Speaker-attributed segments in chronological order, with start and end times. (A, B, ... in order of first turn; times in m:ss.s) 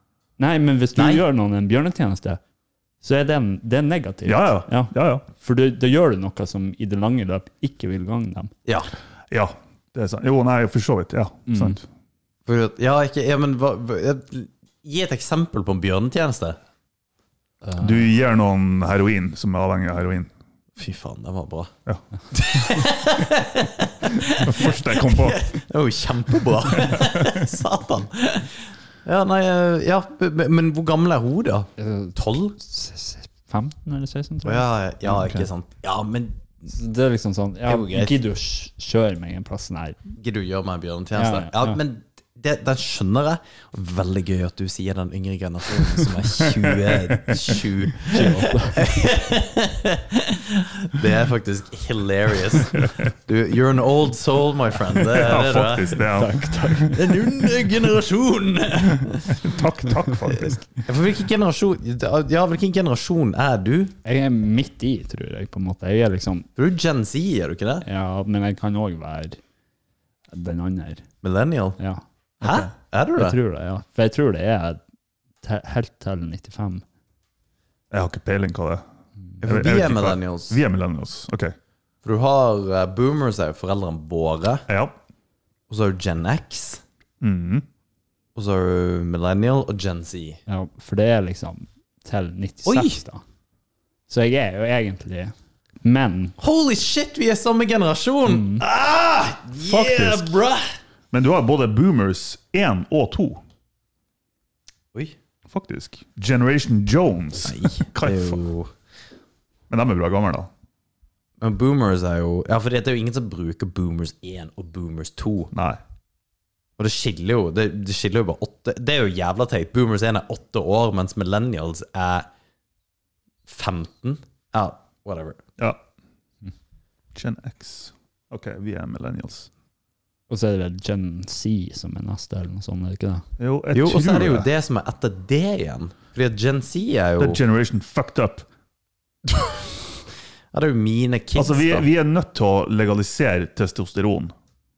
0:00.4-0:02.4 A
0:01.0-0:01.2 B
0:03.0-0:08.5 A
0:04.2-0:05.2 C
0:09.3-0:11.8 C
0:11.5-0:11.8 A
0:12.4-0:16.6 B
0:17.6-0:18.0 A
0:17.8-0:20.3 C
0:20.8-0:21.7 B
0:22.3-0:32.5 B
0:24.2-0:25.4 C
0:26.8-0:27.4 C
0:31.8-0:34.7 A
0:34.4-0:36.4 B
0:35.1-0:35.5 C
0:36.7-0:40.0 A
0:37.6-0:38.1 B
0:40.2-0:56.0 B
0:41.2-0:41.8 A
0:46.5-0:47.5 C
0:48.0-0:48.8 A
0:52.7-0:53.1 C
0:54.9-0:56.9 C
0:56.1-0:57.1 A
0:56.9-0:59.4 B
0:58.9-1:00.6 C
1:00.3-1:03.9 B
1:04.0-1:06.5 A
1:06.6-1:07.8 B
1:07.8-1:09.4 A
1:10.3-1:11.0 A
1:11.2-1:11.8 B
1:12.4-1:13.4 B
1:13.2-1:14.8 A
1:15.4-1:16.8 A
1:17.9-1:18.8 C
1:19.4-1:20.6 B
1:19.4-1:21.5 C
1:22.0-1:24.6 B
1:24.7-1:24.9 C
1:25.7-1:26.8 B
1:27.2-1:27.6 C
1:28.4-1:30.4 B
1:30.5-1:33.2 A
1:32.6-1:33.0 B
1:34.1-1:36.3 A
1:36.4-1:40.6 B
1:38.3-1:38.6 A
1:39.6-1:40.3 C
1:41.1-1:43.4 C
1:45.5-1:48.4 C
1:47.4-1:48.7 B
1:49.7-1:50.5 C
1:51.4-1:55.5 B
1:55.5-1:55.8 C
1:56.8-2:02.3 B
2:03.5-2:05.4 B
2:07.1-2:09.5 C
2:10.3-2:13.2 A
2:13.4-2:14.5 C
2:13.7-2:17.4 B
2:17.2-2:18.4 C
2:20.5-2:21.9 B
2:21.4-2:24.3 C